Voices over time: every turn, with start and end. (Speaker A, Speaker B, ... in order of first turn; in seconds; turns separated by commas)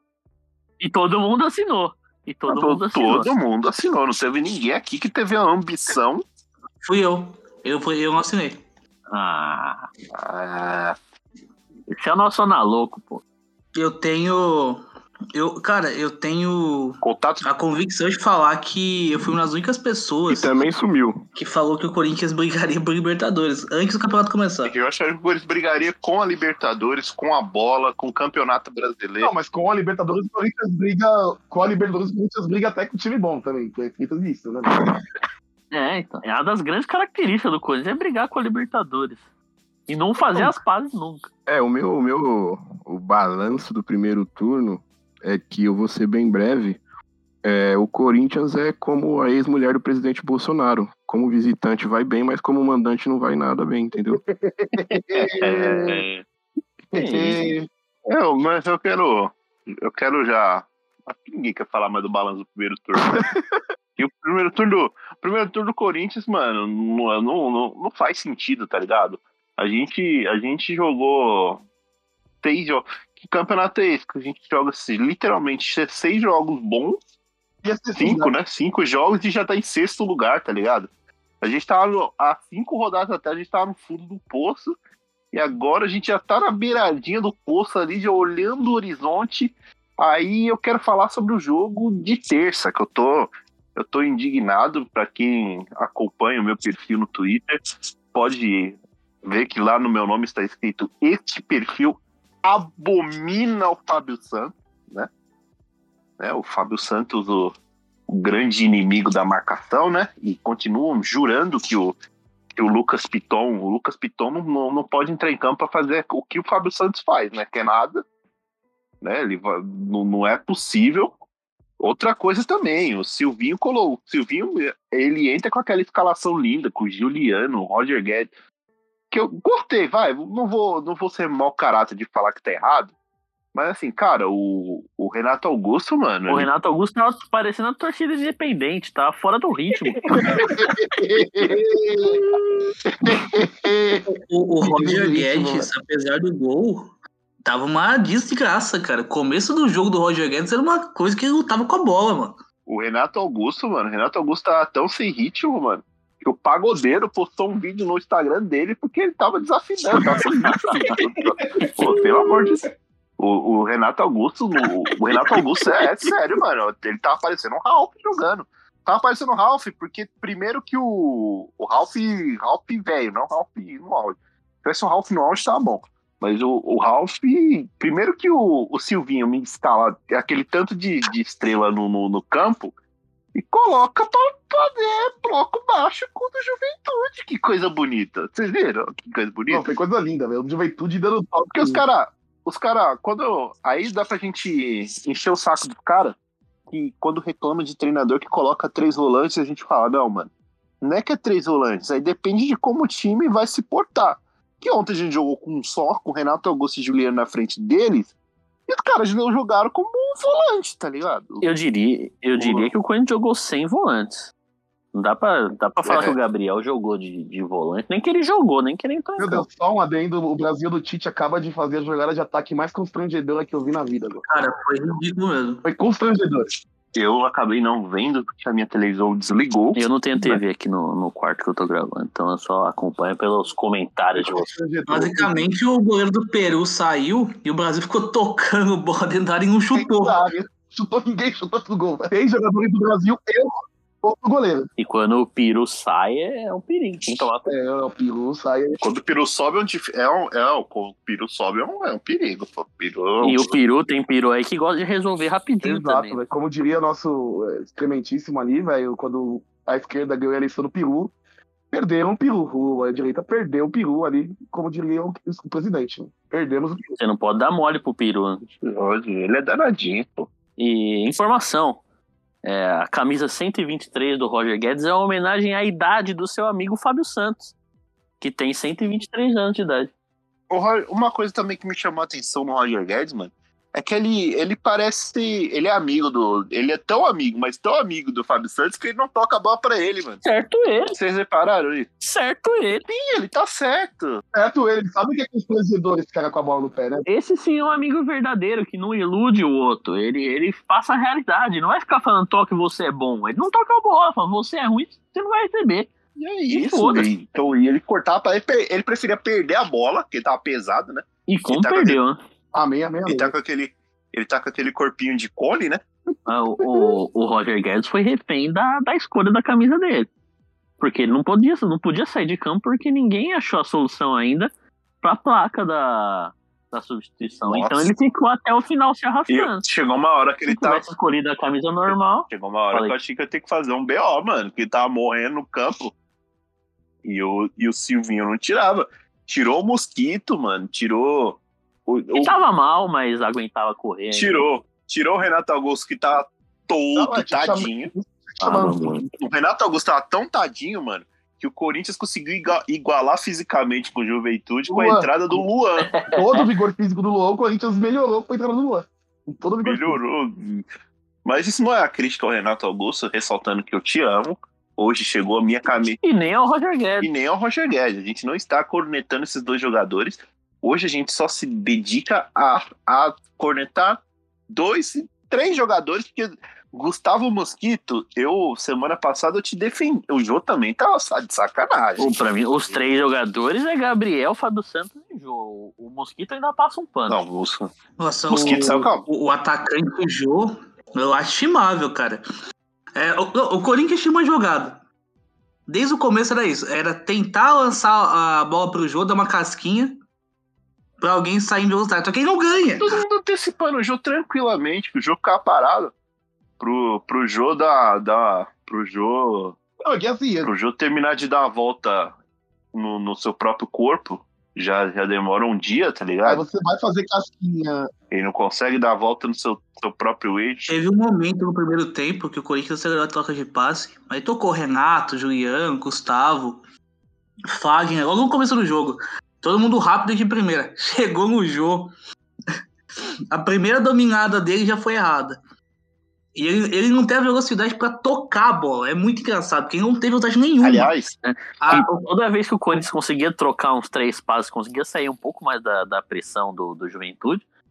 Speaker A: 0.8-3.3, Speaker B: 2.5-6.2, Speaker C: 6.8-8.6, Speaker A: 9.1-9.9, Speaker B: 10.1-10.9, Speaker A: 11.9-13.2, Speaker C: 13.7-14.8, Speaker C: 15.3-20.5, Speaker B: 17.0-17.4, Speaker D: 20.3-21.2, Speaker C: 21.3-24.7, Speaker B: 24.6-29.3, Speaker E: 29.2-34.8, Speaker A: 35.7-39.2, Speaker A: 39.9-41.3, Speaker D: 41.5-46.8, Speaker D: 47.4-54.2, Speaker E: 54.2-56.0, Speaker B: 55.1-56.2, Speaker E: 56.9-57.7, Speaker A: 56.9-57.4, Speaker B: 58.1-63.2, Speaker B: 64.0-71.6, Speaker B: 72.4-77.0, Speaker E: 77.6-78.3, Speaker B: 78.0-80.9, Speaker B: 81.4-84.7, Speaker B: 85.3-97.6, Speaker B: 98.1-105.1, Speaker B: 106.2-107.5, Speaker B: 108.1-112.0, Speaker B: 112.5-118.0, Speaker B: 119.0-121.1, Speaker B: 121.8-128.3, Speaker B: 129.1-132.9, Speaker B: 133.5-136.5, Speaker A: 136.3-140.1, Speaker E: 140.2-142.3, Speaker B: 142.0-142.3, Speaker B: 142.9-144.0, Speaker C: 144.1-146.9, Speaker E: 144.6-145.7, Speaker C: 147.4-152.4, Speaker B: 152.7-162.6, Speaker B: 163.2-182.7, Speaker B: 183.3-189.6, Speaker E: 189.5-191.8, Speaker B: 191.5-196.2, Speaker B: 196.7-200.3, Speaker B: 200.8-208.1, Speaker B: 208.7-211.5, Speaker A: 211.4-214.3, Speaker B: 212.3-212.7, Speaker A: 214.9-219.4, Speaker B: 215.8-216.2, Speaker E: 219.2-224.2, Speaker C: 224.2-225.6, Speaker E: 225.6-226.5, Speaker B: 226.9-230.4, Speaker A: 229.8-234.5, Speaker E: 234.2-235.4, Speaker C: 234.9-240.2, Speaker E: 239.7-244.7, Speaker A: 244.8-247.5, Speaker E: 247.4-248.8, Speaker B: 248.8-253.5, Speaker A: 253.2-256.2, Speaker E: 255.6-261.1, Speaker E: 261.7-266.9, Speaker A: 267.0-268.4, Speaker B: 268.4-270.3, Speaker A: 270.6-271.8, Speaker A: 272.4-277.5, Speaker A: 278.2-279.9, Speaker B: 280.5-290.2, Speaker A: 290.2-290.9, Speaker B: 290.9-291.9, Speaker A: 292.0-292.8, Speaker B: 292.9-294.2, Speaker E: 294.3-297.0, Speaker A: 297.1-305.9, Speaker B: 306.2-312.0, Speaker A: 306.5-307.1, Speaker A: 311.3-312.2, Speaker E: 312.5-313.3, Speaker B: 313.1-315.8, Speaker A: 316.3-320.1, Speaker E: 316.6-316.9, Speaker A: 320.8-324.5, Speaker A: 325.0-329.6, Speaker B: 327.4-327.9, Speaker B: 329.3-330.9, Speaker A: 330.5-332.9, Speaker B: 332.3-335.9, Speaker B: 337.0-342.3, Speaker A: 342.1-344.5, Speaker B: 344.1-347.9, Speaker E: 346.9-349.1, Speaker A: 348.4-349.0, Speaker B: 349.2-355.9, Speaker E: 354.7-355.4, Speaker A: 355.9-356.4, Speaker E: 356.1-360.0, Speaker B: 359.6-360.6, Speaker B: 361.2-366.0, Speaker A: 366.0-367.1, Speaker B: 367.0-382.1, Speaker A: 382.0-387.2, Speaker B: 387.1-387.7, Speaker C: 388.0-392.2, Speaker B: 388.3-389.1, Speaker C: 392.9-394.8, Speaker C: 395.7-400.0, Speaker C: 401.0-402.9, Speaker B: 402.8-405.9, Speaker B: 406.6-409.5, Speaker E: 409.8-410.5, Speaker B: 410.4-412.1, Speaker B: 412.7-416.4, Speaker E: 416.2-417.9, Speaker B: 418.1-420.7, Speaker C: 420.7-426.6, Speaker C: 427.5-431.9, Speaker C: 433.3-435.4, Speaker C: 436.4-440.9, Speaker B: 440.6-441.2, Speaker A: 441.2-447.4, Speaker C: 441.6-442.0